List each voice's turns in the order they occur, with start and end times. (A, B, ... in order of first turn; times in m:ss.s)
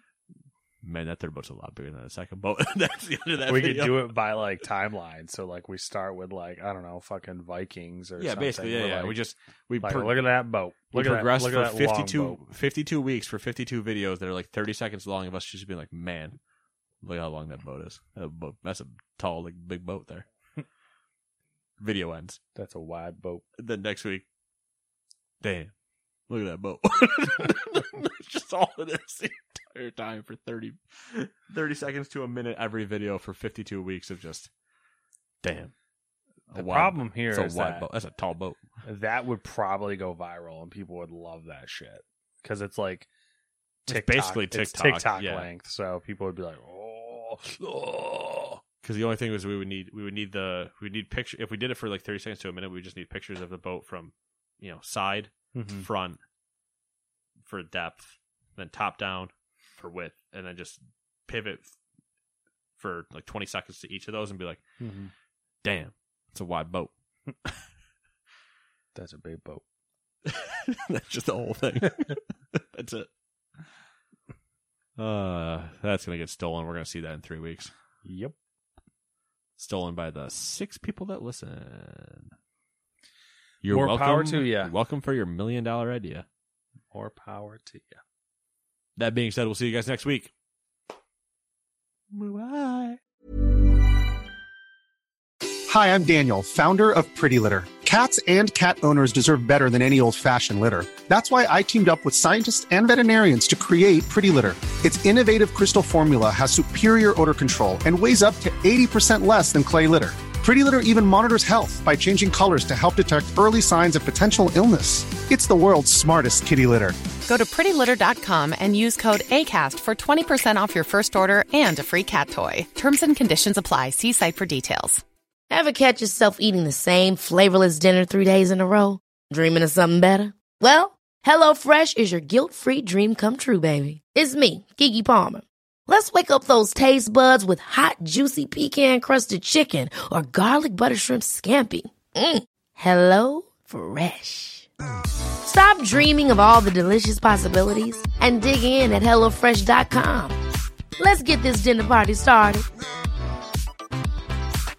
0:00.8-0:04.2 A
0:03.4-0:09.2 B
0:08.2-0:10.2 A
0:09.8-0:12.4 B
0:10.9-0:16.4 A
0:17.0-0:20.2 A
0:21.8-0:22.4 A
0:22.6-0:23.4 B
0:23.6-0:24.2 A
0:25.4-0:25.7 A
0:26.3-0:34.5 A
0:35.4-0:35.7 A
0:36.5-0:38.6 A
0:36.5-0:37.8 B
0:38.8-0:43.1 B
0:43.9-0:45.5 A
0:43.9-0:48.6 B
0:48.8-0:56.2 A
0:55.5-0:55.8 B
0:57.4-1:01.7 A
1:02.8-1:04.6 A
1:04.8-1:05.1 B
1:05.6-1:06.9 A
1:08.9-1:09.6 B
1:10.2-1:13.1 A
1:15.0-1:17.7 A
1:18.0-1:18.3 B
1:19.6-1:22.3 A
1:23.6-1:26.2 A
1:23.7-1:24.7 B
1:26.9-1:28.0 B
1:29.0-1:30.3 A
1:32.1-1:33.0 A
1:35.7-1:57.0 C
1:57.3-2:05.0 D
2:05.5-2:24.7 E
2:25.4-2:30.4 E
2:31.0-2:32.6 E